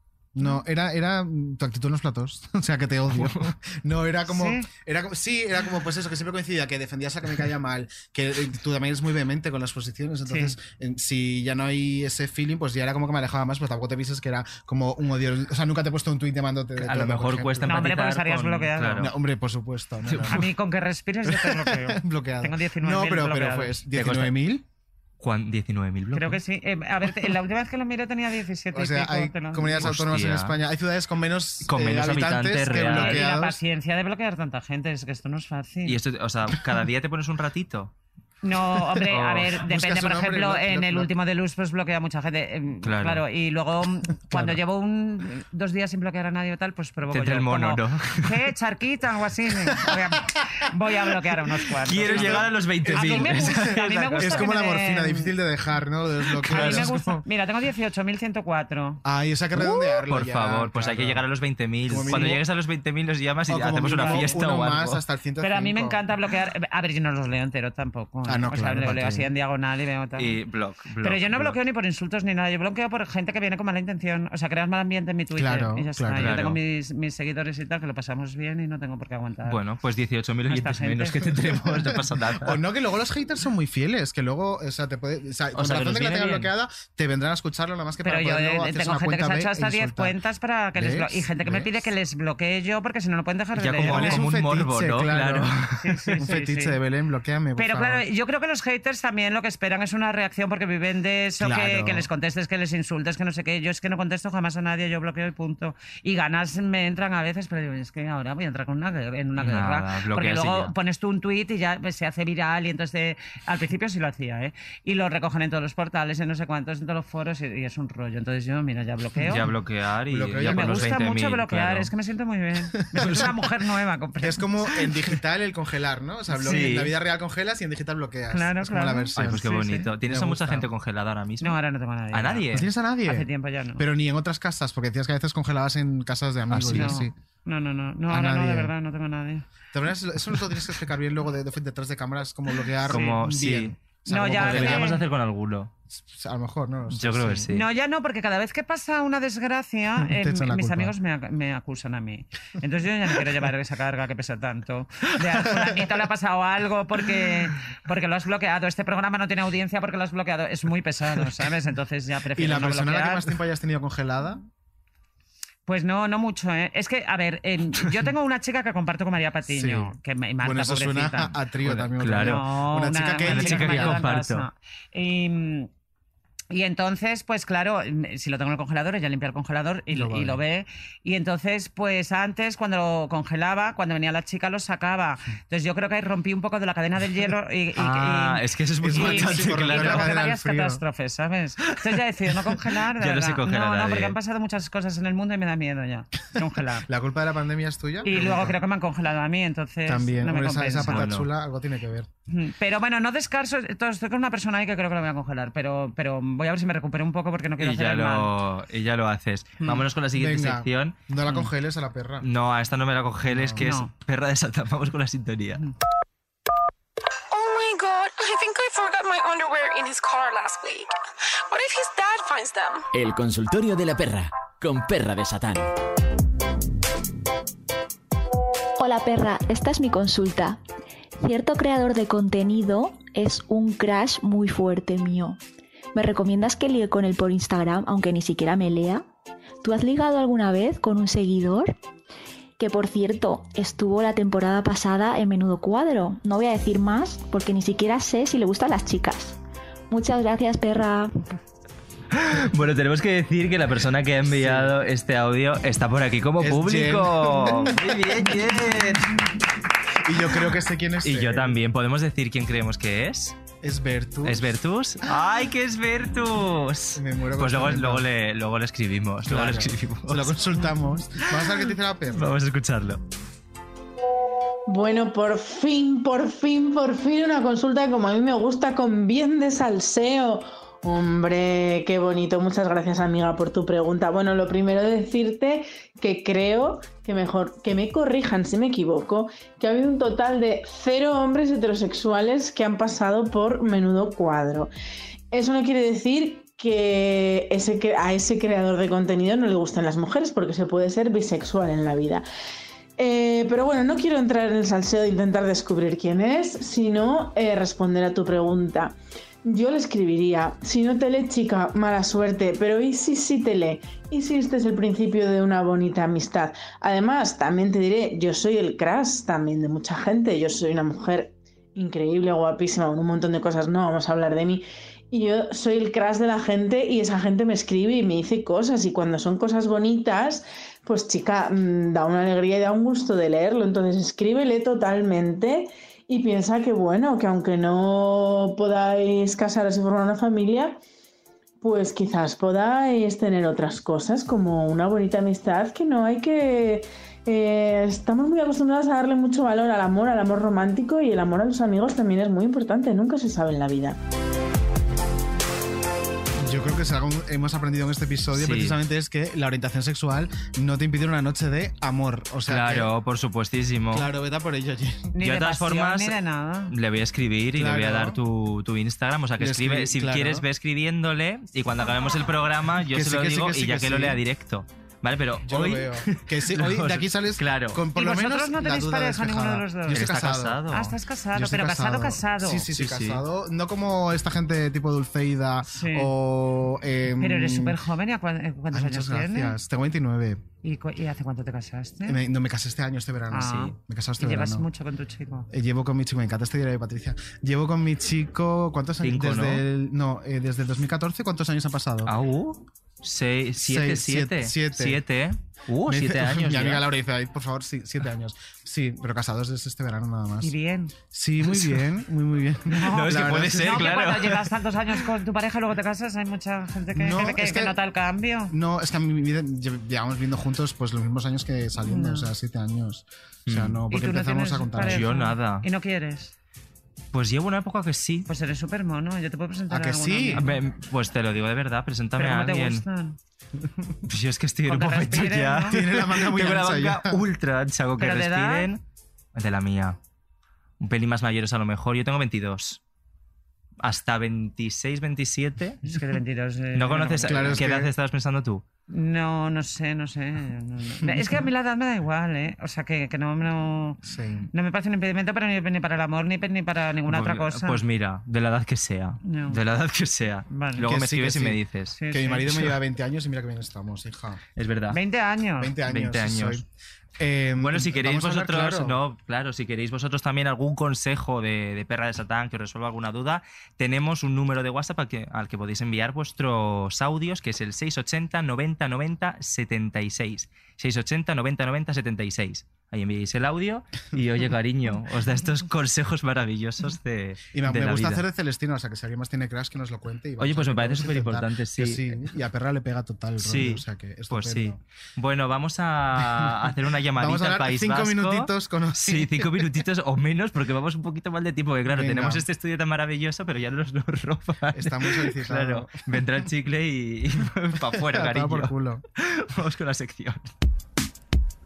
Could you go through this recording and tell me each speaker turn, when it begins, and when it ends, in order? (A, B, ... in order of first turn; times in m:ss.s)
0:00.3-0:17.9 A
0:03.1-0:03.4 B
0:04.3-0:04.7 C
0:10.3-0:10.5 C
0:16.8-0:19.1 B
0:17.6-0:19.1 C
0:19.0-0:20.5 A
0:20.0-0:20.4 B
0:20.3-0:23.7 C
0:21.3-0:24.6 A
0:24.0-0:24.3 B
0:25.2-0:26.4 B
0:26.1-0:29.9 C
0:28.7-0:33.6 A
0:29.8-0:30.6 B
0:31.7-0:33.2 B
0:32.8-0:36.0 C
0:35.8-0:37.9 B
0:38.4-0:55.3 C
0:39.1-0:39.6 B
0:39.6-0:41.1 A
0:42.8-0:43.2 B
0:44.3-0:44.6 A
0:47.1-0:48.3 B
0:51.8-0:54.5 B
0:52.0-0:57.2 A
0:56.4-0:56.9 B
0:56.4-0:59.0 C
0:59.0-1:01.2 A
0:59.6-1:05.0 B
1:01.9-1:02.4 A
1:03.5-1:06.0 A
1:04.0-1:04.4 C
1:05.4-1:10.4 C
1:08.3-1:09.3 A
1:10.2-1:11.6 B
1:11.0-1:19.6 C
1:15.3-1:16.4 A
1:16.2-1:16.6 B
1:19.5-1:22.6 B
1:20.5-1:21.3 C
1:21.8-1:30.2 A
1:25.5-1:26.5 B
1:28.0-1:34.3 C
1:30.7-1:31.9 A
1:33.6-1:35.8 B
1:33.8-1:35.5 A
1:35.8-1:36.8 C
1:36.2-1:38.0 A
1:37.6-1:59.5 C
1:41.4-1:42.1 A
1:49.4-1:50.7 B
1:59.3-2:01.9 B
2:00.1-2:01.0 A
2:00.4-2:04.4 C
2:02.8-2:03.4 A
2:04.2-2:10.7 A
2:06.4-2:06.9 B
2:06.4-2:06.7 C
2:08.3-2:09.9 C
2:09.2-2:11.6 B
2:11.4-2:12.5 C
2:12.1-2:12.7 B
2:12.5-2:17.1 A
2:13.0-2:13.8 C
2:16.5-2:17.0 B
2:16.7-2:19.4 C
2:18.1-2:18.7 A
2:19.7-2:25.0 A
2:22.9-2:25.7 B
2:22.9-2:23.2 C
2:24.1-2:25.0 C
2:25.9-2:27.5 A
2:26.9-2:27.7 B
2:27.5-2:43.3 C
2:30.0-2:31.0 A
2:35.5-2:35.8 A
2:42.3-2:44.4 A
2:45.7-2:51.4 C
2:49.5-2:54.0 A
2:51.6-2:52.4 B
2:52.1-2:55.7 C
2:53.2-2:54.5 B
2:56.5-3:16.9 C
2:59.9-3:00.4 A
3:07.8-3:10.1 B
3:08.8-3:10.8 A
3:13.0-3:14.2 B
3:16.9-3:18.6 A
3:18.0-3:21.1 C
3:18.1-3:18.4 B
3:19.9-3:22.1 A
3:20.9-3:21.3 B
3:22.3-3:28.3 C
3:27.6-3:31.0 B
3:30.1-3:32.3 A
3:32.2-3:35.6 B
3:33.2-3:33.6 A
3:33.6-3:33.9 C
3:37.4-3:40.8 D
3:42.9-3:45.7 E
3:48.8-3:50.6 F
3:51.2-3:55.4 F
3:55.9-3:59.0 F
3:59.6-4:01.8 F
4:02.6-4:09.4 F
4:09.9-4:11.1 F
4:12.1-4:19.2 B
4:14.3-4:14.7 A
4:16.4-4:18.1 A
4:20.0-4:21.6 A
4:21.0-4:23.4 B
4:23.6-4:24.5 A
4:24.2-4:30.6 B
4:27.0-4:28.0 A
4:29.3-4:32.3 A
4:31.4-4:33.0 B
4:34.7-4:54.7 G
4:55.3-5:02.2 G
5:03.0-5:40.8 G
5:41.6-5:54.0 G
5:56.4-6:02.9 A
5:58.3-5:58.8 B
6:02.5-6:04.1 B
6:03.9-6:05.1 A
6:05.1-6:06.7 C
6:05.2-6:06.2 B
6:06.7-6:17.8 B
6:07.6-6:08.2 A
6:09.4-6:10.4 A
6:12.9-6:14.2 A
6:15.4-6:20.6 A
6:18.0-6:20.1 C
6:19.9-6:21.0 B
6:20.7-6:22.7 C
6:21.3-6:27.8 A
6:22.8-6:23.2 B
6:25.7-6:26.1 C
6:27.2-6:29.6 C
6:28.7-6:30.4 A
6:30.6-6:32.2 C
6:32.0-6:34.7 A
6:33.3-6:35.5 C
6:33.4-6:33.7 B
6:35.5-6:42.1 A
6:39.0-6:39.6 B
6:42.0-6:46.8 B
6:43.6-6:45.0 A
6:45.9-6:50.5 A
6:50.4-6:50.9 C
6:51.1-6:54.0 A
6:51.4-6:51.8 B
6:52.7-6:58.5 C
6:52.8-6:54.5 B
6:56.9-6:57.8 A
6:58.5-7:05.1 A
7:01.8-7:02.3 C
7:03.5-7:03.8 B
7:03.9-7:06.3 C
7:04.8-7:05.7 B
7:07.1-7:08.3 B
7:08.3-7:10.6 C
7:09.7-7:10.4 A
7:10.3-7:12.8 B
7:12.2-7:13.2 C
7:14.1-7:18.8 B
7:14.7-7:15.8 C
7:15.7-7:17.2 A
7:18.0-7:18.7 C
7:19.3-7:20.0 B
7:20.8-7:22.8 B
7:23.8-7:25.8 B
7:25.8-7:27.6 C
7:26.7-7:28.6 B
7:27.2-7:27.9 A
7:28.9-7:34.0 C
7:31.0-7:31.4 A
7:34.0-7:34.5 A
7:34.5-7:37.8 C
7:37.1-7:42.0 B
7:39.2-7:39.6 C
7:40.5-7:40.9 C
7:40.8-7:44.4 A
7:42.0-7:42.5 C
7:44.6-7:45.0 B
7:44.9-7:45.8 C
7:45.6-7:46.7 A
7:45.8-7:46.6 B
7:47.2-7:49.0 A
7:47.6-8:08.2 B
8:07.5-8:14.8 A
8:10.4-8:12.1 B
8:13.4-8:30.5 B
8:16.2-8:19.7 A
8:21.9-8:22.4 A
8:24.7-8:26.0 A
8:27.9-8:29.0 A